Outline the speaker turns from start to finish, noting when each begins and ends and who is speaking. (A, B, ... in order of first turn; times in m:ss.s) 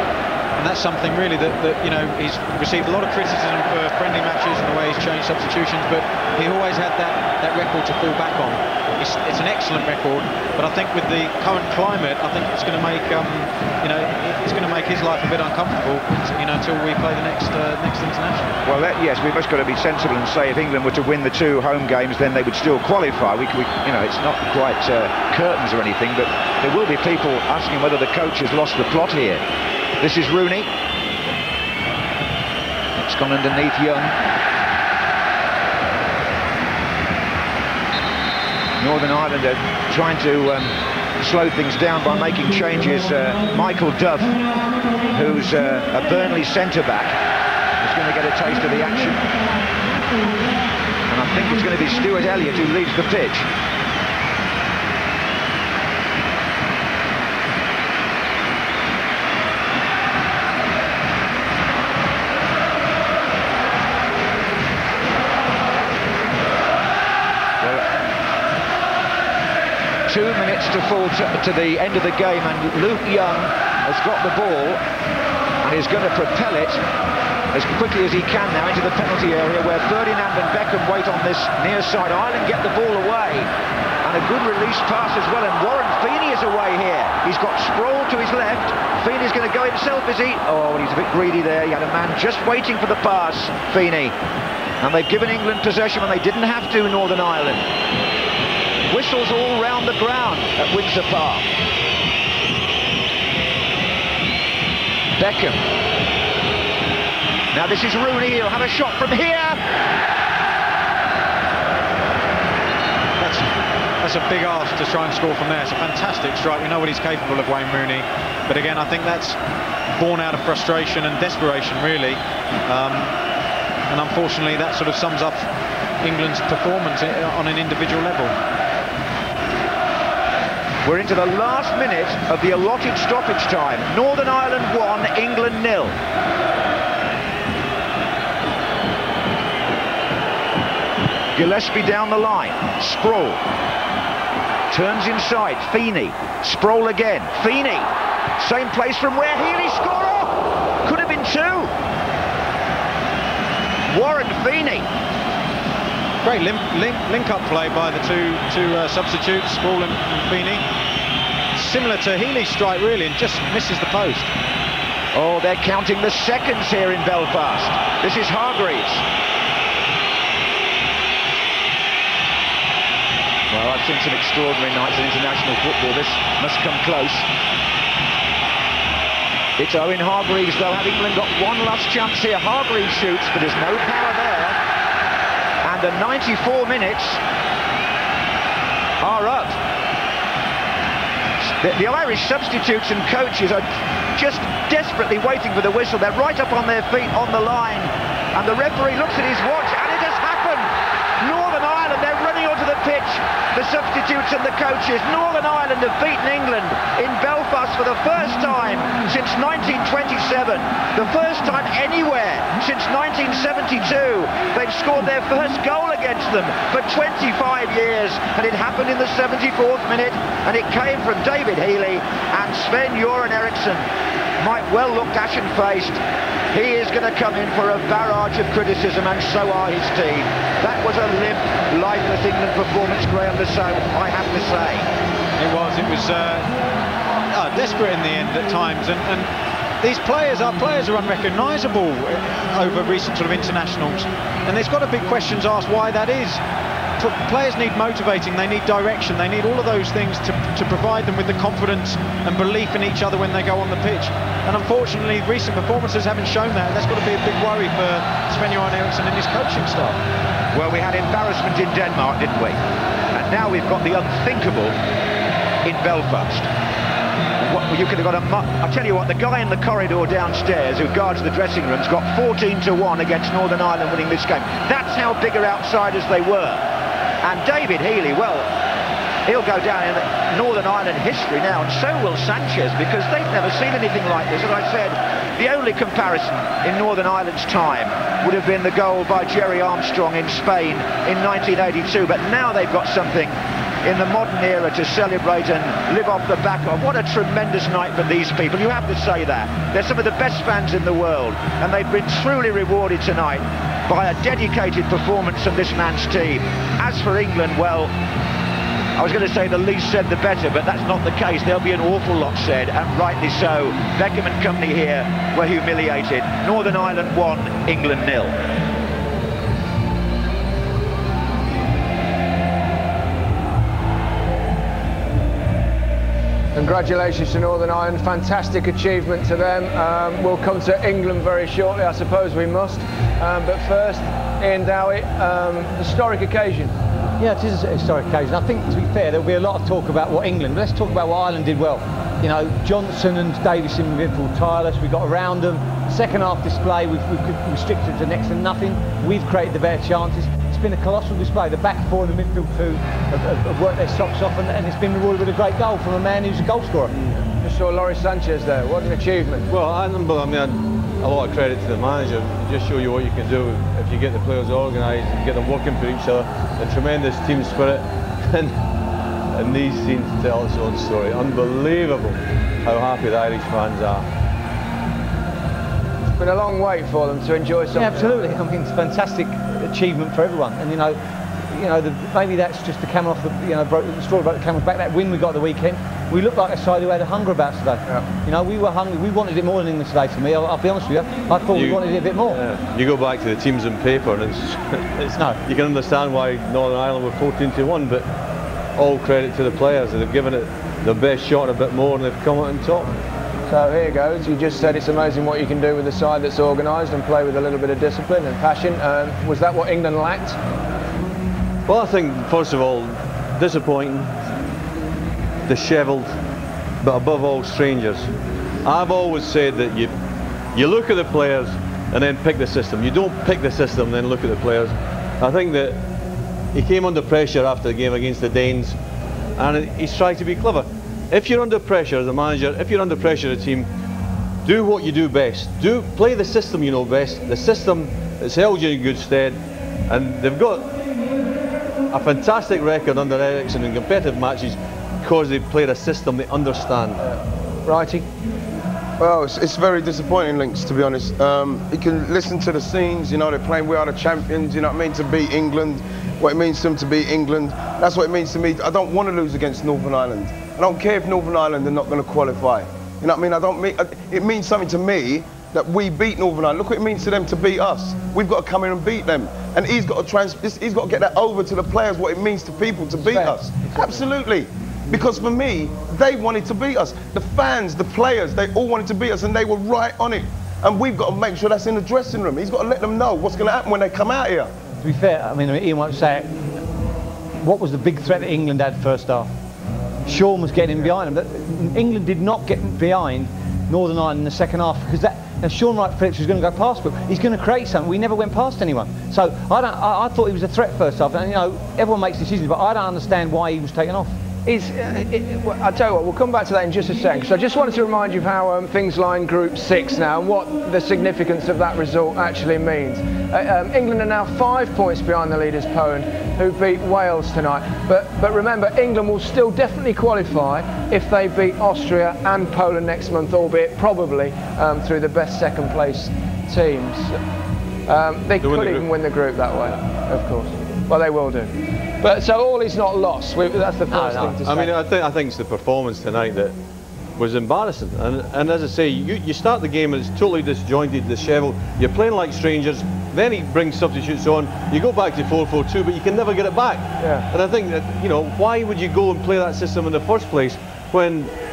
0:00.6-0:18.5 A
0:18.6-0:29.4 B
0:30.0-0:30.7 B
0:33.0-0:34.1 B
0:38.8-0:44.4 B
0:45.1-0:47.1 B
0:47.8-0:49.2 B
0:51.1-0:53.5 B
1:10.1-1:14.8 B
1:15.6-1:16.8 B
1:17.5-1:23.5 B
1:24.0-1:34.1 B
1:34.8-1:37.7 B
1:38.9-1:41.5 B
1:45.2-1:45.6 B
1:47.5-1:49.6 B
1:53.2-1:59.4 A
2:00.0-2:03.2 A
2:03.9-2:05.5 A
2:06.0-2:08.3 A
2:10.8-2:16.0 B
2:21.3-2:23.4 B
2:24.7-2:31.7 B
2:33.9-2:34.8 B
2:36.2-2:40.6 A
2:41.5-2:44.3 A
2:45.1-2:49.0 B
2:53.5-2:57.3 B
2:59.6-3:04.6 B
3:05.6-3:07.2 B
3:09.0-3:09.6 B
3:11.4-3:43.8 B
3:44.4-3:46.0 B
3:46.5-3:54.9 B
3:55.4-3:56.5 A
3:57.3-3:59.3 A
3:59.8-4:06.4 A
4:07.0-4:20.0 A
4:20.5-4:22.6 B
4:23.1-4:24.8 B
4:25.6-4:26.5 B
4:27.4-4:36.6 B
4:37.2-4:38.5 B
4:39.2-5:07.9 B
5:08.9-5:18.3 B
5:26.5-5:36.7 C
5:37.2-5:57.0 D
5:57.4-5:59.5 C
5:59.5-6:08.6 E
6:09.3-6:14.0 E
6:16.2-6:18.4 C
6:17.7-6:32.4 D
6:31.5-6:38.0 E
6:35.0-6:35.4 D
6:38.8-6:42.9 E
6:43.5-6:50.4 C
6:51.6-6:54.2 E
6:55.5-6:56.2 E
6:56.8-6:58.1 E
6:58.6-6:59.9 E
7:00.5-7:05.8 E
7:06.5-7:08.8 E
7:09.4-7:13.7 E
7:14.4-7:20.7 E
7:21.9-7:27.0 E
7:27.0-7:28.0 C
7:29.0-8:04.5 F
8:04.8-8:06.3 D
8:07.4-8:09.3 D
8:10.0-8:24.1 D
8:24.4-8:47.2 C
8:47.9-8:54.7 C
8:48.4-8:48.9 E
8:53.9-8:54.5 D
8:54.4-8:56.5 E
8:57.2-9:11.3 E
9:07.0-9:07.3 C